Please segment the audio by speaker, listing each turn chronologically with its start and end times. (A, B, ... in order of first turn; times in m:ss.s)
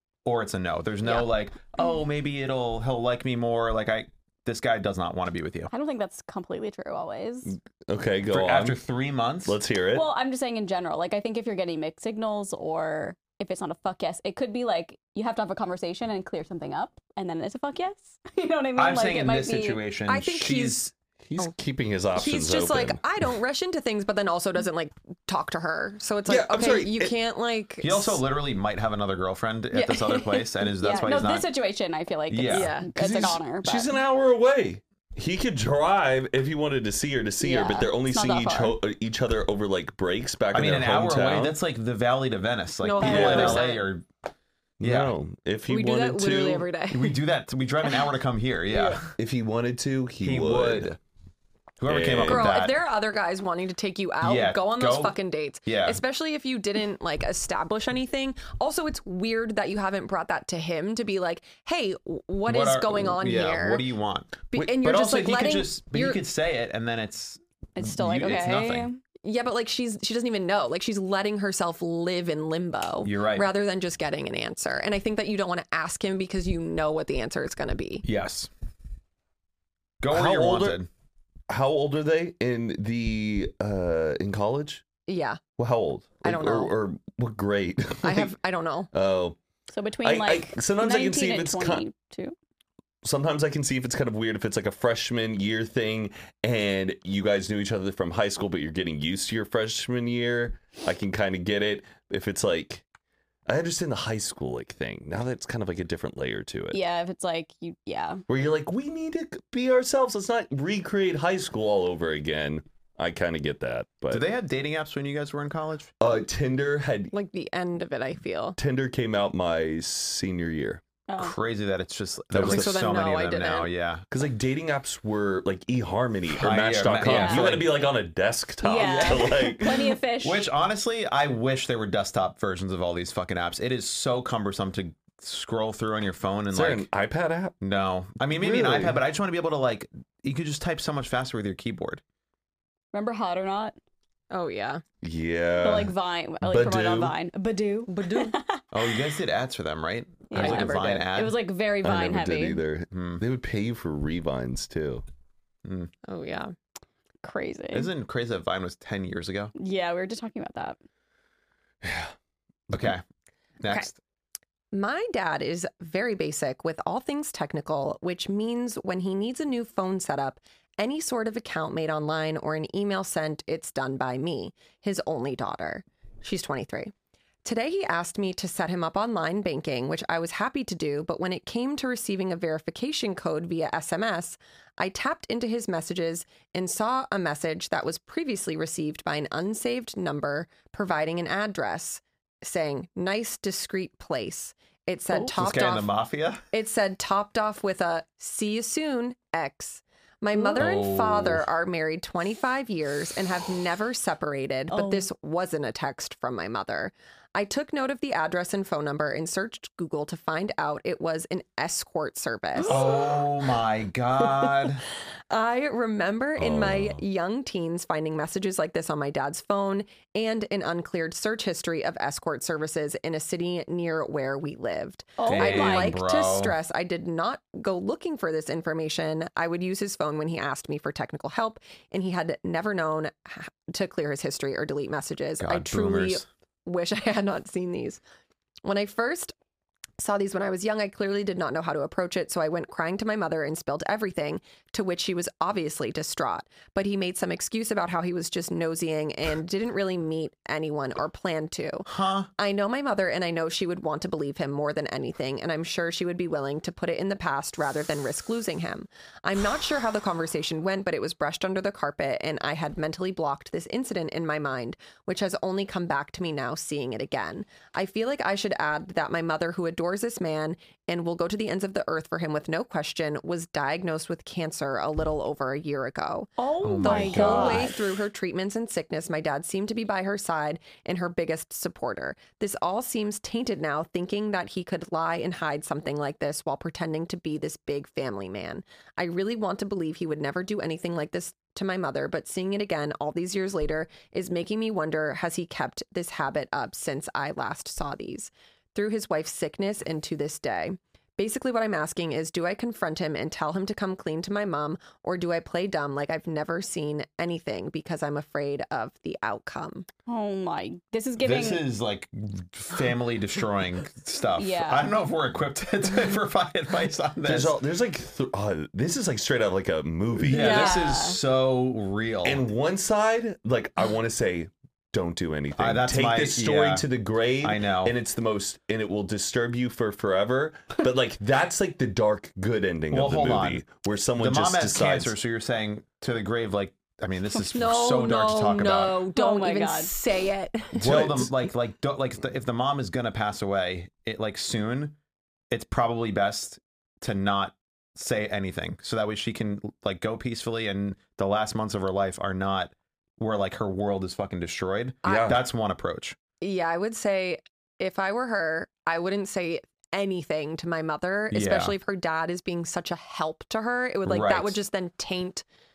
0:00.2-0:05.7 A
0:05.7-0:07.6 B
0:07.5-0:08.8 C
0:08.3-0:09.6 A
0:09.4-0:10.1 C
0:09.9-0:19.8 B
0:18.8-0:20.9 A
0:20.1-0:21.5 D
0:21.2-0:23.0 C
0:22.2-0:28.2 D
0:26.3-0:27.1 C
0:27.8-0:31.5 A
0:29.7-0:30.5 D
0:30.8-0:34.0 B
0:32.3-0:32.7 A
0:32.5-0:32.9 D
0:33.0-0:41.6 C
0:37.4-0:38.8 B
0:40.5-0:44.1 A
0:42.8-0:43.9 D
0:43.0-0:43.6 C
0:43.0-0:43.7 B
0:44.8-0:46.7 C
0:44.8-0:45.1 A
0:45.7-0:47.2 D
0:46.9-0:49.1 A
0:48.7-0:49.1 D
0:49.2-0:50.9 C
0:50.2-0:51.0 A
0:51.8-0:52.8 A
0:51.9-0:52.6 C
0:52.2-1:03.8 D
0:54.2-0:56.0 A
1:02.5-1:08.9 A
1:04.5-1:06.2 D
1:07.8-1:09.0 B
1:09.2-1:18.0 D
1:13.0-1:13.5 A
1:18.0-1:18.5 A
1:20.0-1:20.9 A
1:20.1-1:20.8 C
1:21.5-1:24.8 C
1:25.1-1:25.4 D
1:25.6-1:28.3 C
1:26.2-1:26.7 D
1:28.0-1:28.9 D
1:28.9-1:29.4 C
1:29.7-1:32.4 B
1:30.0-1:31.8 C
1:33.0-1:42.8 C
1:43.5-1:46.8 C
1:46.7-1:48.2 B
1:48.3-1:54.2 C
1:54.1-1:55.9 A
1:56.0-1:57.1 C
1:57.1-1:58.6 D
1:58.6-2:00.8 C
2:01.1-2:01.4 B
2:01.2-2:04.0 A
2:02.3-2:02.9 C
2:02.4-2:03.7 D
2:04.1-2:09.9 C
2:06.4-2:07.8 A
2:07.0-2:07.6 B
2:08.6-2:10.5 B
2:10.2-2:16.9 A
2:16.5-2:17.6 C
2:17.6-2:22.0 A
2:18.3-2:19.0 C
2:22.9-2:23.8 B
2:24.3-2:24.8 D
2:25.0-2:27.1 C
2:25.6-2:28.6 B
2:27.9-2:28.4 D
2:28.7-2:31.4 A
2:30.3-2:32.6 B
2:30.3-2:31.1 D
2:31.8-2:35.0 C
2:32.9-2:33.2 A
2:35.6-2:35.9 A
2:36.1-2:36.5 D
2:37.2-2:37.9 B
2:37.7-2:39.5 A
2:39.6-2:40.8 B
2:41.8-2:42.1 C
2:42.7-2:43.0 A
2:43.6-2:44.0 A
2:44.7-2:56.9 D
2:57.4-3:15.9 D
3:15.1-3:16.4 A
3:16.5-3:32.9 D
3:20.5-3:21.4 A
3:24.7-3:25.1 B
3:32.7-3:34.8 A
3:35.3-3:58.0 D
3:36.4-3:37.0 C
3:45.2-3:46.0 B
3:45.2-3:46.6 A
3:55.4-3:56.2 A
3:58.6-3:59.3 D
4:00.0-5:09.9 D
4:11.9-4:12.3 A
4:36.4-4:37.8 B
4:36.6-4:37.7 A
5:10.1-5:11.6 B
5:11.2-5:17.6 A
5:14.4-5:14.9 B
5:17.2-5:20.8 C
5:20.2-5:22.4 A
5:20.3-5:21.2 B
5:22.2-5:35.2 C
5:25.6-5:26.9 A
5:27.4-5:27.9 A
5:32.9-5:33.6 A
5:34.2-5:39.0 A
5:37.4-5:40.9 D
5:39.1-5:39.9 B
5:40.8-5:41.3 C
5:40.8-5:45.0 A
5:45.5-5:56.2 A
5:55.0-5:55.4 D
5:55.1-5:55.4 C
5:56.4-6:05.4 D
6:01.3-6:01.8 A
6:04.1-6:04.6 A